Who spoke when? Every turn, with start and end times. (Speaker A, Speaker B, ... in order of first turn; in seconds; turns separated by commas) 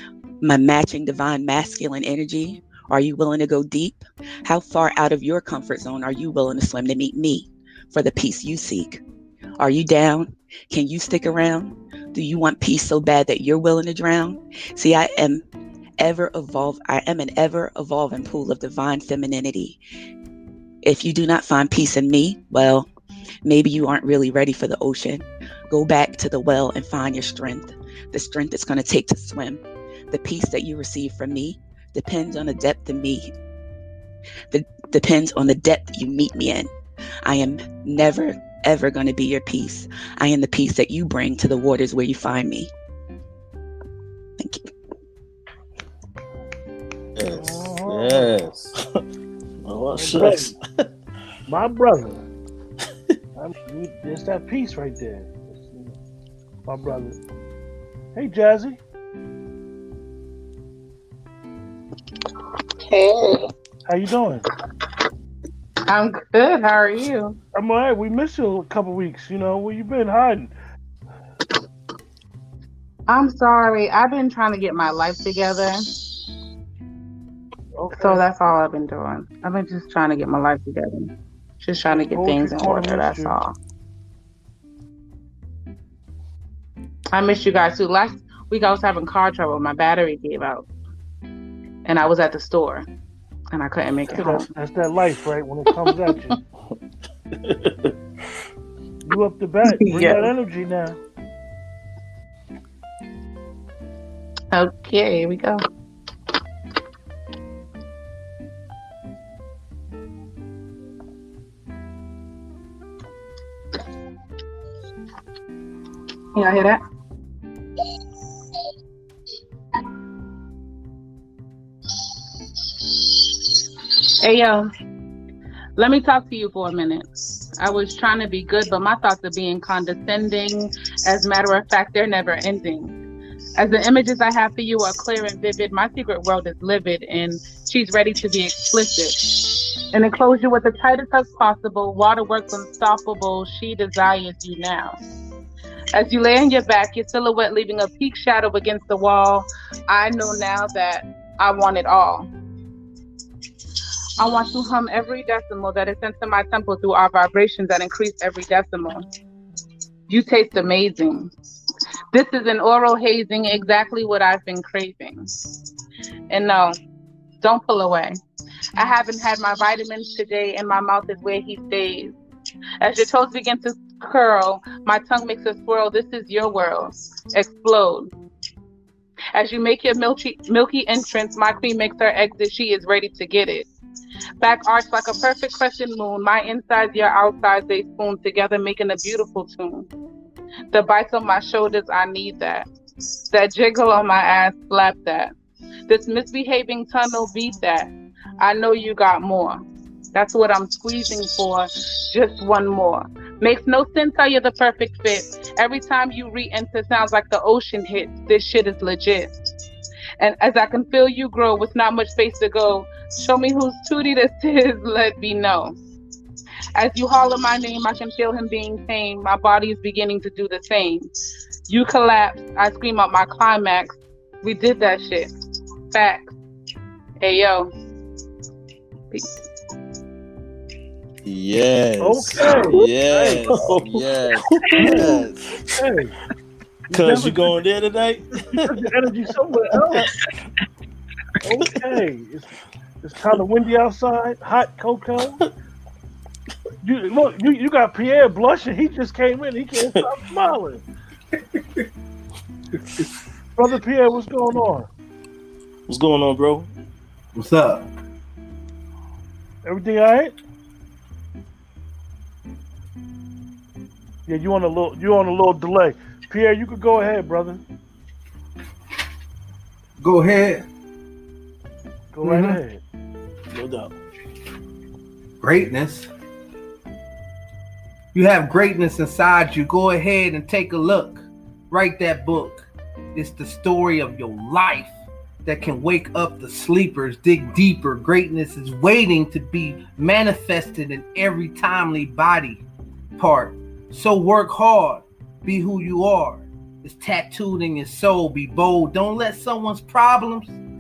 Speaker A: 0.4-9.0, Speaker A: 9.6-15.4, Speaker A: 16.0-19.8, Speaker A: 20.8-22.9, Speaker A: 23.4-33.3, Speaker A: 34.5-36.7, Speaker A: 37.2-42.7, Speaker A: 44.4-44.7, Speaker B: 47.2-48.7, Speaker C: 47.3-48.4, Speaker D: 49.6-50.8, Speaker C: 50.0-50.5, Speaker C: 51.5-52.2, Speaker C: 53.4-56.0, Speaker C: 56.7-57.2, Speaker C: 58.1-58.8, Speaker E: 62.9-63.5, Speaker C: 63.9-64.5, Speaker E: 65.9-67.4, Speaker C: 67.5-70.5, Speaker E: 73.1-76.1, Speaker C: 77.8-78.2, Speaker E: 78.0-83.5, Speaker C: 81.9-83.4, Speaker E: 87.1-90.7, Speaker E: 91.9-92.9, Speaker E: 93.5-94.5, Speaker C: 94.1-96.4, Speaker D: 97.4-97.9, Speaker C: 99.0-101.0, Speaker E: 99.7-100.3, Speaker E: 104.5-105.6, Speaker E: 116.3-116.8, Speaker E: 124.2-124.7, Speaker E: 125.8-127.1, Speaker E: 127.6-133.0, Speaker E: 133.6-145.0, Speaker E: 145.9-152.3, Speaker E: 154.2-159.1, Speaker E: 160.1-161.3, Speaker E: 162.1-165.5, Speaker E: 166.3-166.8, Speaker E: 167.4-168.2, Speaker E: 168.8-172.1, Speaker E: 172.8-178.1, Speaker E: 179.3-183.7, Speaker E: 184.4-189.9, Speaker E: 190.7-192.7, Speaker E: 193.3-195.3, Speaker E: 195.9-199.6, Speaker E: 200.1-209.3, Speaker E: 210.2-215.8, Speaker E: 216.8-221.1, Speaker E: 221.7-225.3, Speaker E: 225.9-226.3, Speaker E: 227.2-227.7, Speaker B: 231.2-235.4, Speaker C: 232.0-233.5, Speaker D: 233.5-235.5, Speaker C: 234.8-235.1, Speaker C: 235.8-236.1, Speaker C: 236.9-237.6, Speaker D: 236.9-238.7, Speaker C: 238.5-240.1, Speaker C: 241.4-242.5, Speaker C: 243.0-245.4, Speaker C: 246.8-250.8, Speaker C: 253.6-254.9, Speaker D: 255.9-256.7, Speaker F: 257.4-257.9, Speaker C: 259.6-260.4, Speaker C: 264.3-267.6, Speaker F: 270.0-270.7, Speaker C: 272.1-272.8, Speaker F: 272.2-272.6, Speaker D: 273.5-273.9, Speaker F: 275.4-276.1, Speaker F: 278.1-292.6, Speaker F: 293.2-300.6